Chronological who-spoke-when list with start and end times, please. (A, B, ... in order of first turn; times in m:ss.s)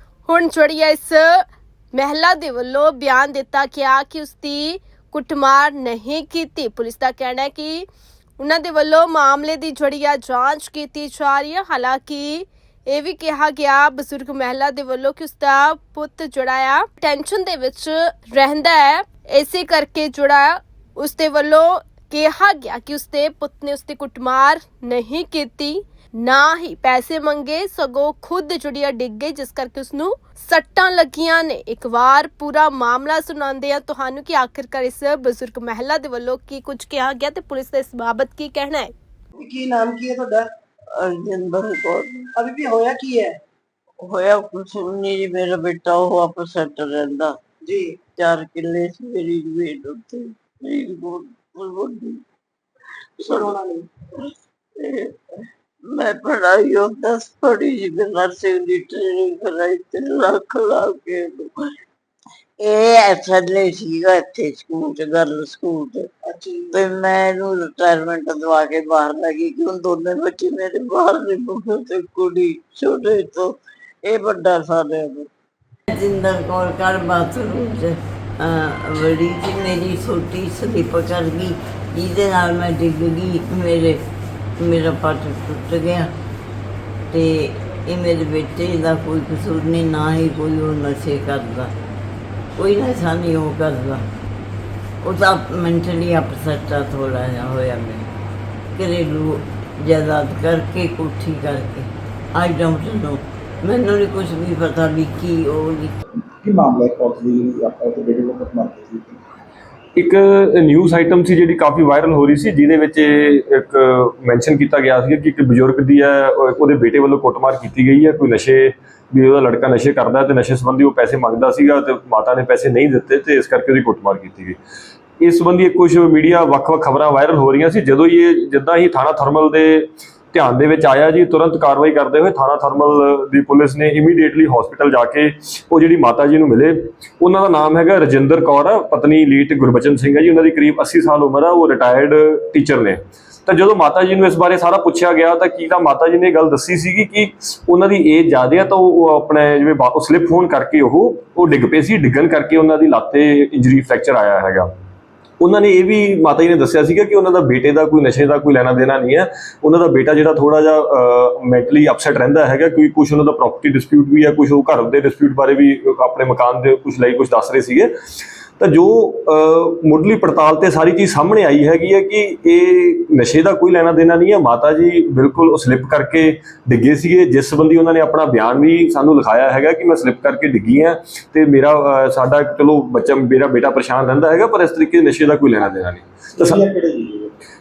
0:00.2-0:07.8 A
0:08.4-0:38.9 A
0:39.4-0:40.5 B
0:40.9-0:42.3 C
0:42.4-0:43.4 B
0:44.0-0:47.4 C
0:47.6-0:48.0 B
0:48.1-0:52.2 C
0:53.2-0:53.6 C
0:53.2-0:53.9 B
0:54.8-0:55.1 C
0:55.9-1:01.6 C
1:02.6-1:06.1 C
1:06.3-1:06.8 B
1:06.7-1:13.5 C
1:14.0-1:15.3 C
1:15.9-1:24.0 C
1:24.6-1:26.1 C
1:27.1-1:31.7 C
1:32.6-1:34.0 C
1:35.0-1:38.1 C
1:38.8-1:45.9 C
1:46.4-1:49.2 D
1:50.0-2:04.6 E
2:05.2-2:34.7 E
2:35.4-2:47.9 E
2:48.6-3:06.6 E
3:06.4-3:07.3 D